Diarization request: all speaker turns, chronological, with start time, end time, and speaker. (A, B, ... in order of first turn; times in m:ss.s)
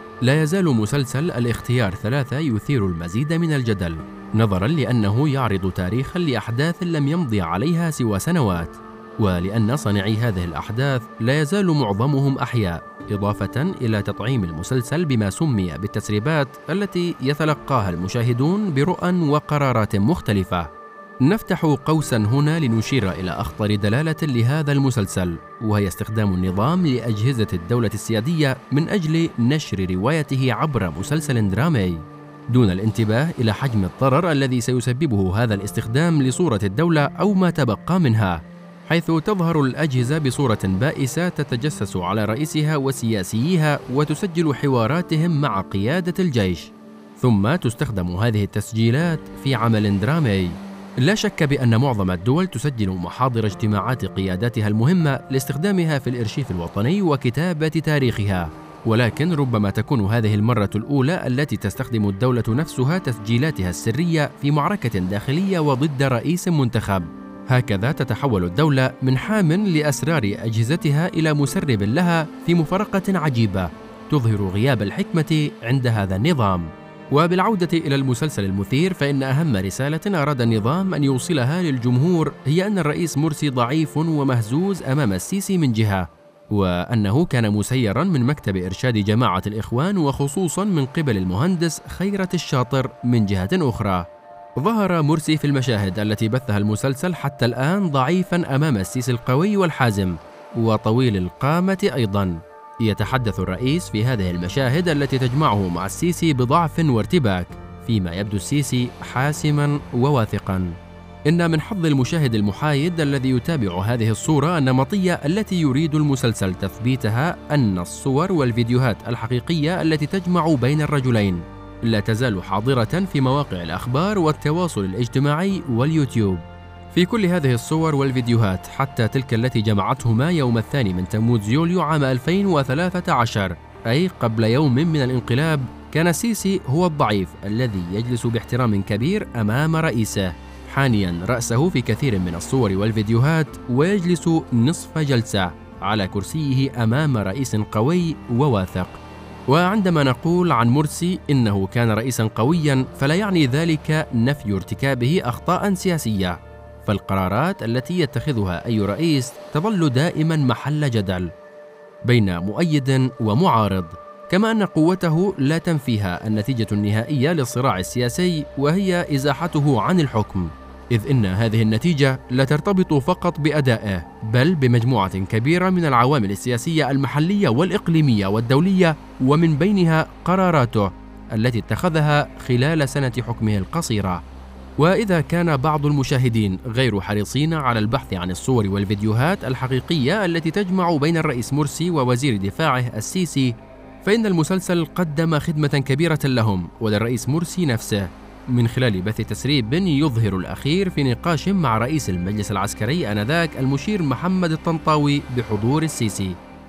0:00.2-0:20.7 A
0:21.2-1:50.8 A
1:51.3-2:41.3 A
2:42.0-3:04.2 A
3:04.8-3:26.4 A